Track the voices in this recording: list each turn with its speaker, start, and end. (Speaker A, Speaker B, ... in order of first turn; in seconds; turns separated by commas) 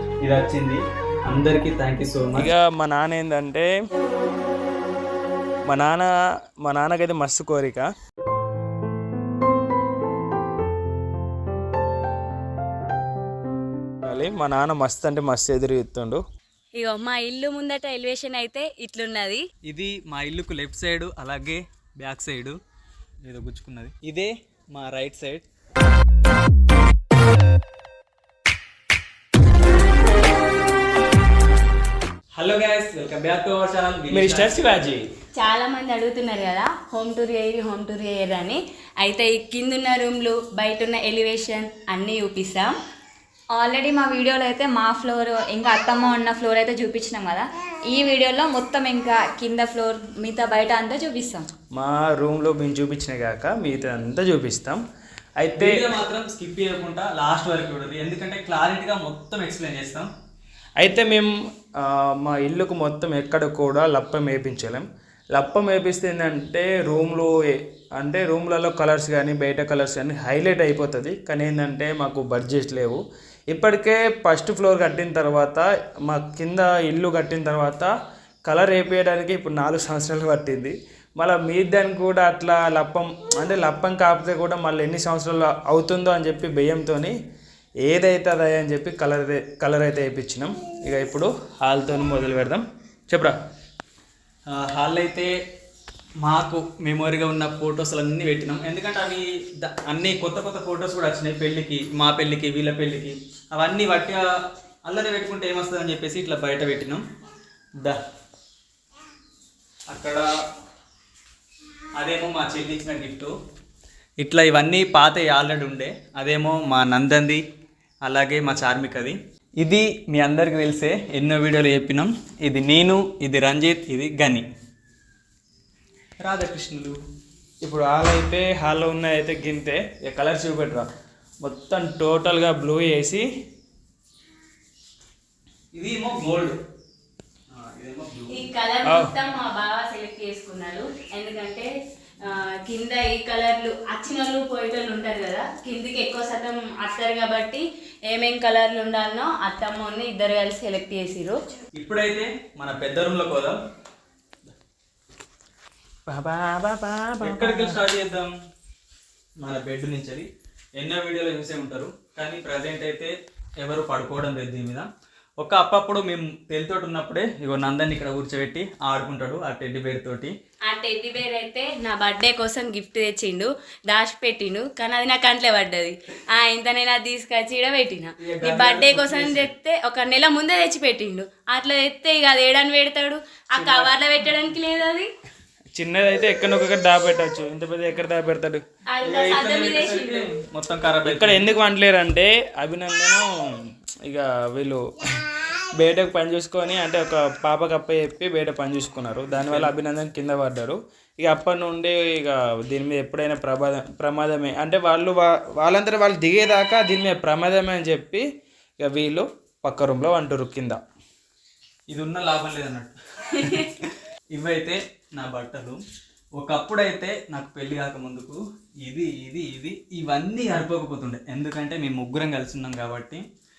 Speaker A: 0.2-2.5, Speaker B: 2.4-3.7, Speaker B: 5.7-6.1, Speaker B: 6.6-7.9, Speaker B: 14.0-16.2, Speaker C: 16.8-19.4, Speaker A: 19.6-22.6, Speaker A: 23.2-25.4, Speaker A: 32.4-34.7, Speaker B: 34.1-35.0, Speaker C: 35.4-42.7, Speaker D: 43.5-51.5, Speaker B: 51.7-54.8, Speaker B: 55.4-55.9, Speaker A: 55.6-60.1, Speaker B: 60.8-77.9, Speaker B: 78.5-87.1, Speaker B: 87.8-93.3, Speaker A: 94.5-95.3, Speaker A: 96.2-104.2, Speaker A: 104.8-107.0, Speaker A: 109.9-110.3, Speaker A: 111.9-113.3, Speaker A: 114.2-117.4, Speaker A: 118.0-124.4, Speaker A: 126.2-127.0, Speaker B: 127.6-130.9, Speaker B: 131.4-133.2, Speaker A: 135.7-136.6, Speaker A: 137.5-138.4, Speaker C: 138.3-141.7, Speaker B: 138.9-139.1, Speaker C: 142.2-151.4, Speaker A: 151.8-153.6, Speaker B: 156.1-157.8, Speaker A: 157.2-158.3, Speaker A: 159.4-164.9, Speaker A: 165.4-170.3, Speaker C: 170.7-185.1, Speaker A: 178.2-179.5, Speaker A: 183.6-183.9, Speaker B: 185.7-188.6, Speaker C: 188.9-190.2, Speaker A: 189.0-191.5, Speaker B: 191.0-193.2, Speaker B: 194.0-208.2, Speaker A: 199.3-199.7, Speaker B: 208.8-210.8, Speaker A: 211.9-215.8, Speaker A: 216.4-223.2